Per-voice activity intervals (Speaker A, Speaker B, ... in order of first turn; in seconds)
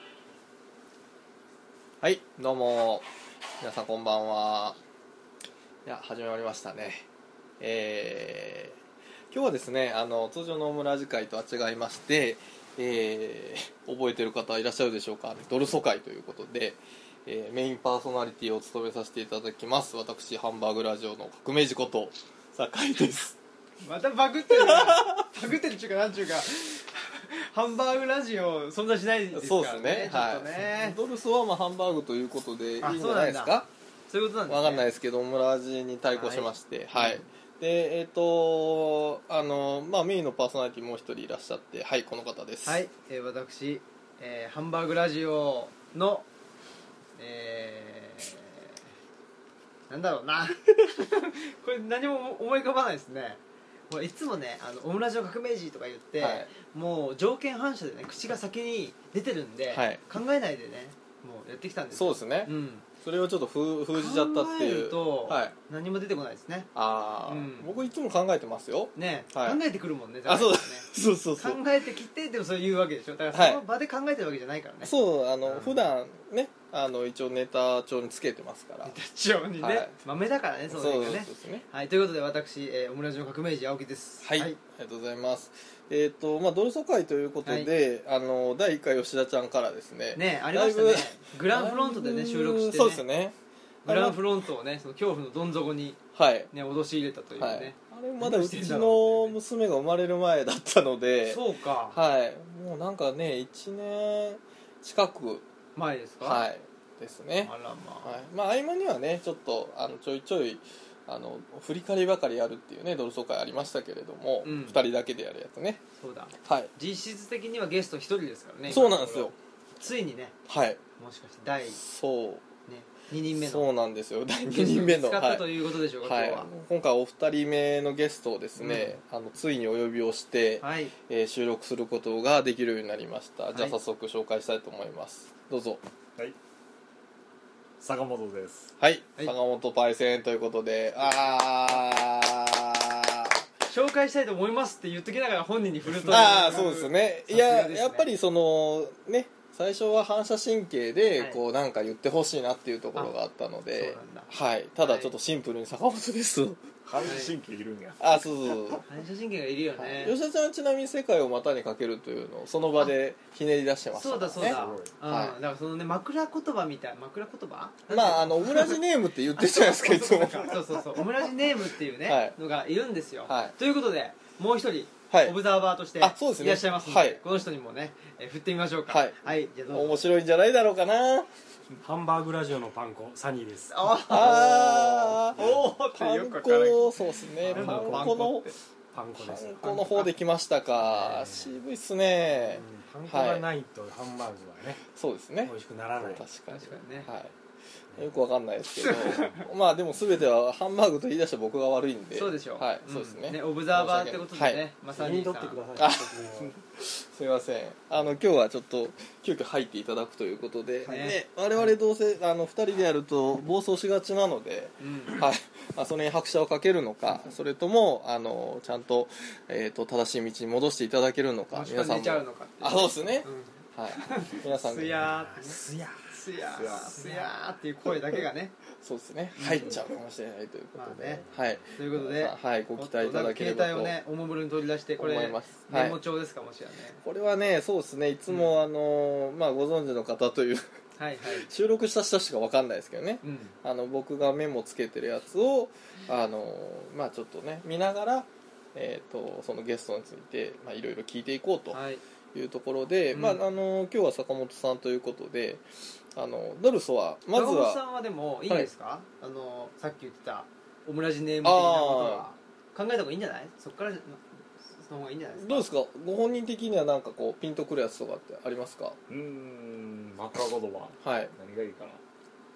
Speaker A: 2.0-3.1, 3.6-4.8, 5.8-7.1, 7.6-8.8, 9.3-23.4, 24.5-25.2, 29.3-33.7, 34.5-42.8, 56.2-56.5, 59.7-60.0, 61.9-65.5, 66.8-69.6, 70.3-71.6, 73.3-73.6, 74.8-79.0, 79.6-80.0, 80.7-81.7, 84.2-94.2, 96.1-96.5, 97.4-105.5, 106.2-107.5, 108.0-115.8, 116.4-116.7, 118.7-119.4, 120.5-120.8, 121.8-122.5, 123.4-135.8, 138.8-143.4, 146.1-156.7, 158.0-158.8, 159.8-165.4, 167.9-171.0, 172.1-172.4, 173.3-173.6, 175.1-175.4, 176.0-177.2, 178.9-181.3, 184.1-185.4, 185.9-188.5, 189.2-193.5, 195.0-197.3, 197.9-204.6, 205.8-225.1, 228.8-234.0, 235.0-236.0, 237.0-240.7, 241.3-251.8, 252.3-257.8, 261.4-262.3, 265.4-269.0, 271.0-271.3
Speaker B: 23.8-31.0, 32.8-34.9, 36.1-37.2, 42.6-46.3, 47.2-48.7, 49.9-62.9, 63.9-66.7, 67.3-67.7, 69.0-74.9, 75.5-75.9, 78.8-84.6, 87.5-87.7, 90.2-93.0, 93.9-96.0, 96.5-99.3, 101.2-102.0, 105.8-106.4, 107.4-108.2, 114.4-114.8, 116.0-120.4, 121.0-121.8, 122.7-123.7, 124.5-126.5, 128.6-128.9, 130.6-130.9, 140.9-141.8, 143.7-148.1, 153.7-155.1, 157.1-157.3, 158.9-160.2, 163.9-168.8, 169.3-180.1, 183.7-188.6, 196.5-197.1, 198.8-199.4, 202.1-205.6, 210.8-211.7, 214.8-215.2, 221.5-228.6, 229.4-229.8, 230.8-237.0, 238.3-238.6, 241.0-241.5, 243.2-243.6, 251.7-252.0, 253.1-253.4, 257.3-265.7
Speaker C: 137.8-138.7, 156.8-158.8, 164.4-164.9, 226.5-227.3, 269.1-272.0
Speaker D: 181.8-184.4, 185.4-185.6, 187.4-188.3, 188.9-190.0, 190.8-191.6, 192.4-194.8, 195.4-196.2, 204.9-206.6, 225.0-226.0, 231.3-231.6